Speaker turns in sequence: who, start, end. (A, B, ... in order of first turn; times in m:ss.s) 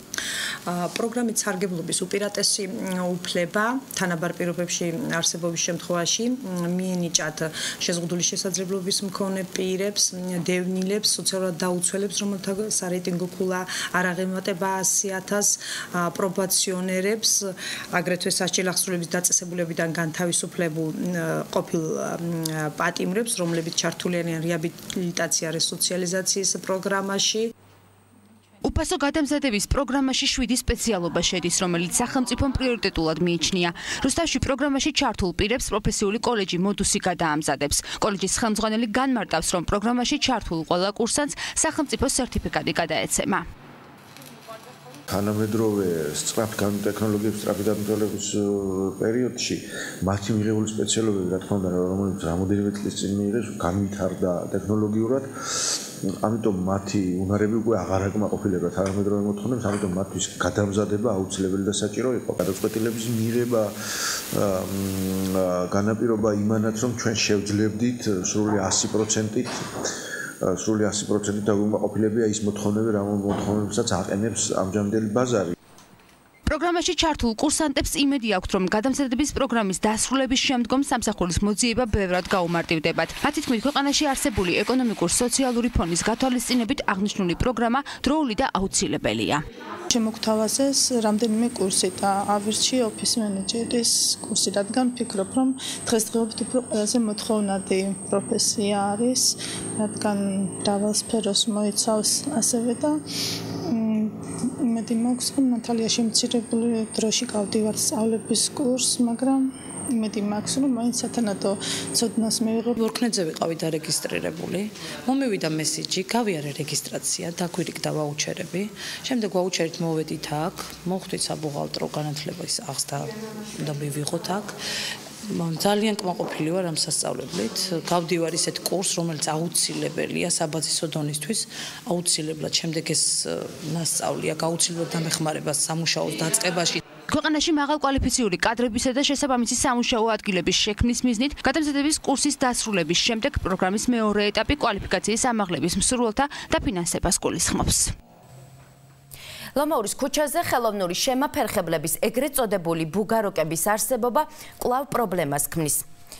0:00.6-0:27.5 A
0:28.6-0:43.4 B
0:45.1-1:09.9 C
1:10.4-1:15.5 C
1:16.4-1:29.4 B
1:29.9-1:43.0 D
1:43.6-1:52.7 D
1:52.7-2:04.6 E
2:05.2-2:16.8 E
2:17.1-2:27.9 B
2:29.6-2:35.8 F